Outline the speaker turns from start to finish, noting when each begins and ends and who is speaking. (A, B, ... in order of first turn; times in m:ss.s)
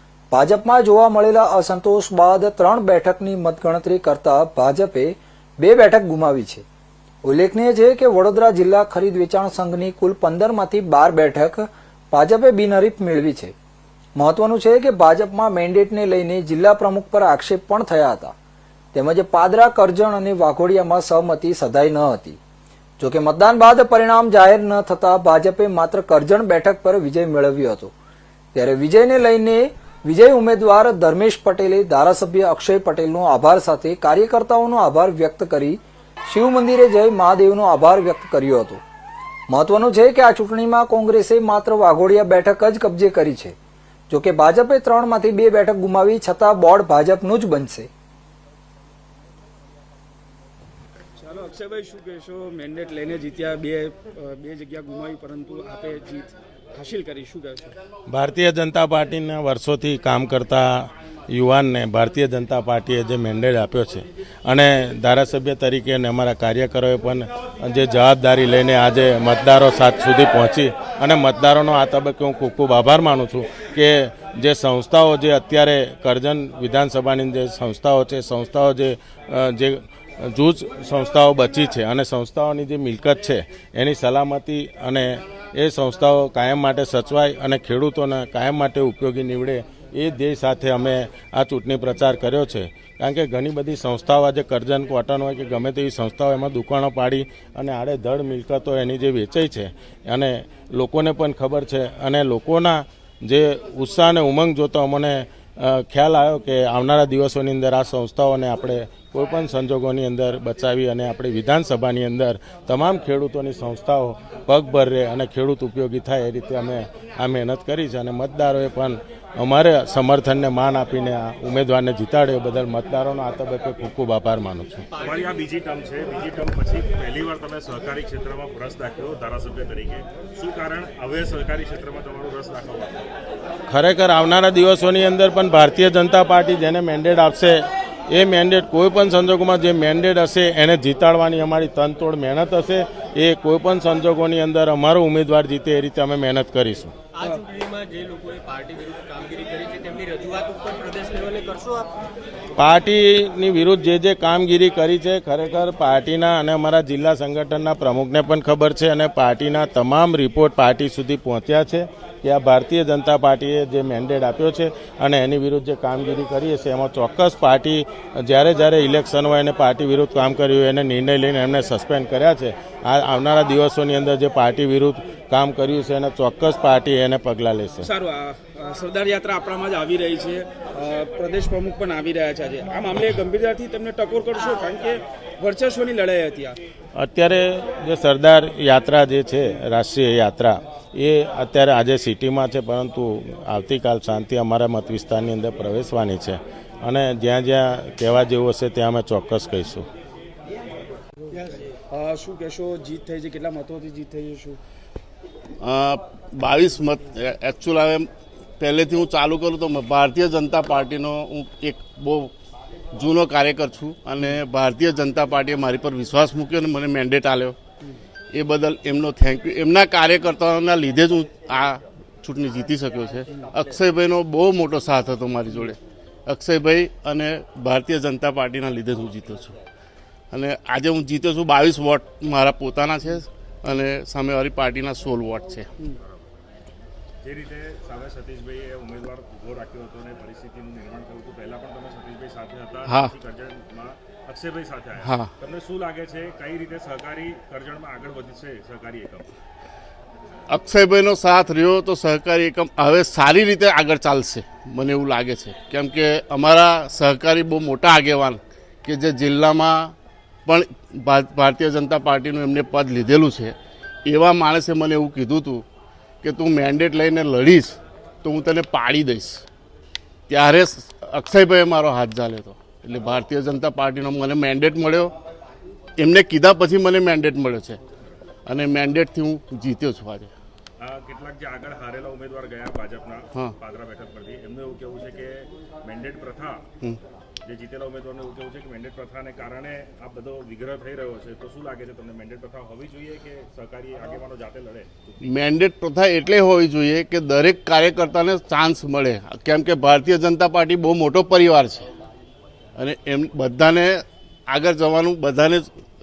0:00.3-0:06.6 A
0:07.2-0:13.5 A
0:14.2-0:18.3 A
0:18.9-0:22.4 A
0:23.0-0:27.9 A
0:28.5-0:38.8 A
0:39.5-0:43.6 A
0:44.1-0:47.9 A
0:51.2-0:57.7 B
0:58.1-2:04.8 C
2:05.0-2:13.1 D
2:13.7-2:26.9 C
2:27.2-2:27.6 B
2:27.2-2:31.9 E
2:32.6-2:57.8 C
2:57.8-3:06.6 B
3:06.9-3:19.8 C
3:21.3-3:24.6 B
3:25.6-3:28.1 F
3:28.6-3:32.3 F
3:32.9-3:37.6 F
3:38.3-3:49.6 F
3:50.3-3:55.7 F
3:55.9-3:56.3 D
3:57.2-4:09.3 D
4:05.0-4:05.3 F
4:10.5-4:20.0 F
4:20.5-4:25.6 F
4:26.2-4:29.4 F
4:30.3-4:35.1 F
4:36.0-4:37.8 F
4:38.4-4:40.3 F
4:40.8-4:46.6 D
4:47.4-4:55.4 D
4:55.2-5:01.9 F
5:02.8-5:05.7 F